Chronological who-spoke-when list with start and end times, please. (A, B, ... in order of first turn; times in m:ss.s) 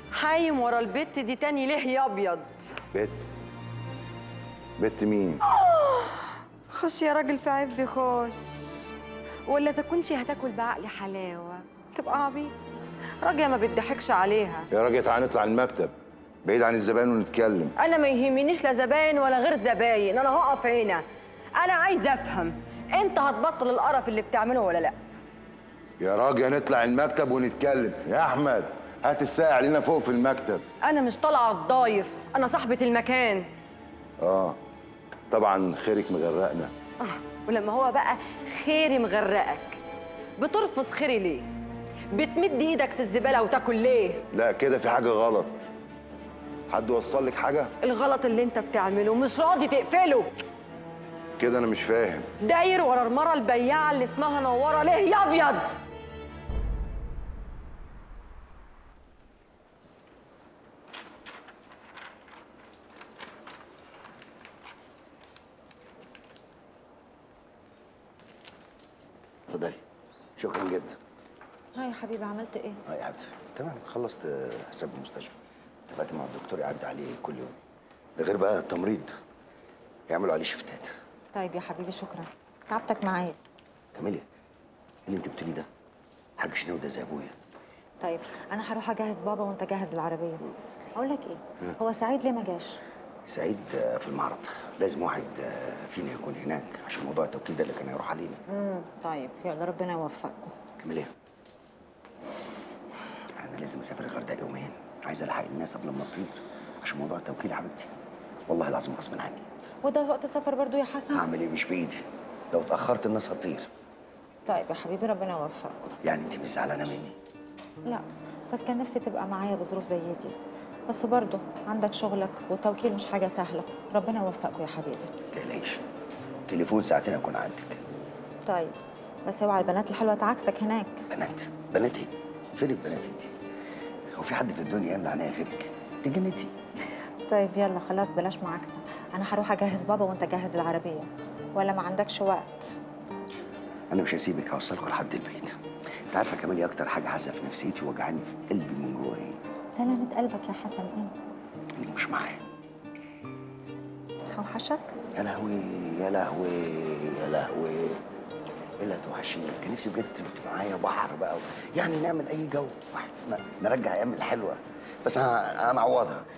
0:00.1-0:02.7 A
0:02.9-0:03.3 B
0:04.8-0:05.4 B
0:05.5-0:08.9 A
0:09.5-0:12.6 A
0:13.2-0:14.7 A
0:14.7-0:15.9 B
0:16.4-0:17.7 B
0:17.8-0:21.0 A
0:21.6-0:25.0 A
0:26.0-0:30.6 B
0:30.8-0:33.5 A
0:34.2-0:34.6 B
0:35.3-0:36.7 B
0:37.0-0:39.8 A
0:40.4-0:41.5 A
0:42.1-0:44.2 A
0:44.3-0:45.6 B
0:46.7-0:47.7 B
0:47.8-0:50.3 A
0:51.4-0:52.3 B
0:52.4-0:55.8 A
1:09.5-1:09.8 C
1:10.4-1:11.0 C
1:11.8-1:12.8 D
1:12.8-1:15.4 C
1:15.9-1:17.6 C
1:18.2-1:19.2 C
1:20.1-1:21.0 C
1:21.3-1:23.4 D
1:24.0-1:24.2 C
1:25.1-1:25.7 C
1:26.4-1:27.4 C
1:28.0-1:32.8 D
1:33.3-1:38.4 C
1:38.5-1:40.6 D
1:40.8-1:41.1 C
1:43.3-1:47.9 C
1:48.5-1:49.4 C
1:49.8-1:51.3 D
1:51.1-1:53.7 C
1:54.5-1:55.9 D
1:56.0-1:57.2 C
1:57.9-2:00.3 D
2:00.9-2:05.1 D
2:05.3-2:05.8 C
2:06.5-2:07.8 C
2:08.4-2:11.0 D
2:11.1-2:13.3 C
2:14.1-2:16.5 C
2:17.3-2:22.8 D
2:23.9-2:25.6 C
2:26.1-2:29.4 C
2:29.8-2:31.1 D
2:31.8-2:32.4 C
2:34.3-2:34.9 D
2:35.2-2:38.0 C
2:38.8-2:46.3 C